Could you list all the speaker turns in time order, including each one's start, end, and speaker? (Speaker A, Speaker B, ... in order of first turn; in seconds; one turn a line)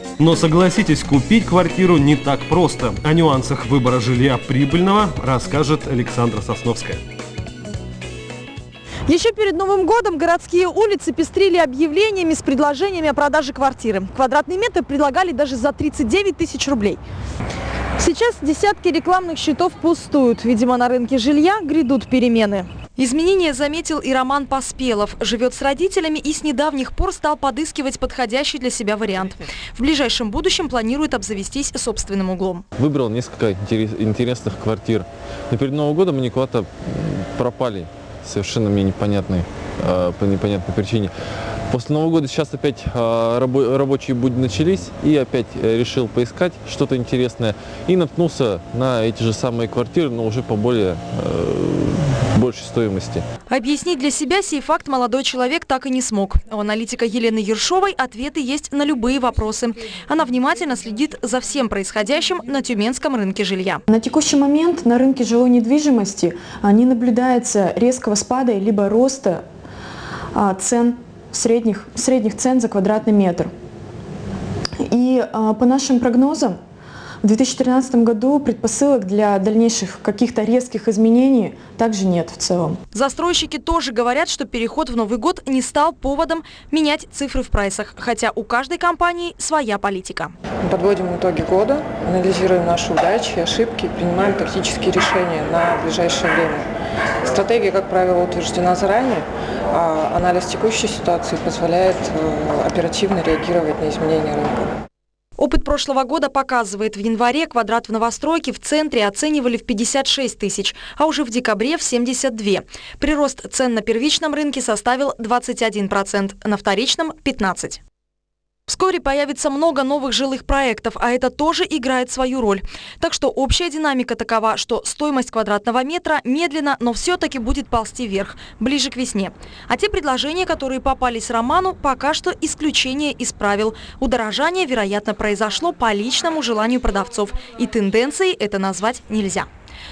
Speaker A: 0.2-7.0
Speaker B: 9.1-17.0
Speaker B: 18.0-32.6
Speaker C: 32.8-41.1
Speaker C: 41.7-53.2
Speaker B: 53.5-63.8
Speaker D: 63.9-69.4
Speaker D: 70.3-73.5
Speaker D: 74.9-76.6
Speaker D: 77.2-82.8
Speaker B: 82.9-90.3
Speaker E: 90.6-96.7
Speaker E: 97.2-104.8
Speaker B: 105.4-117.8
Speaker B: 118.7-139.5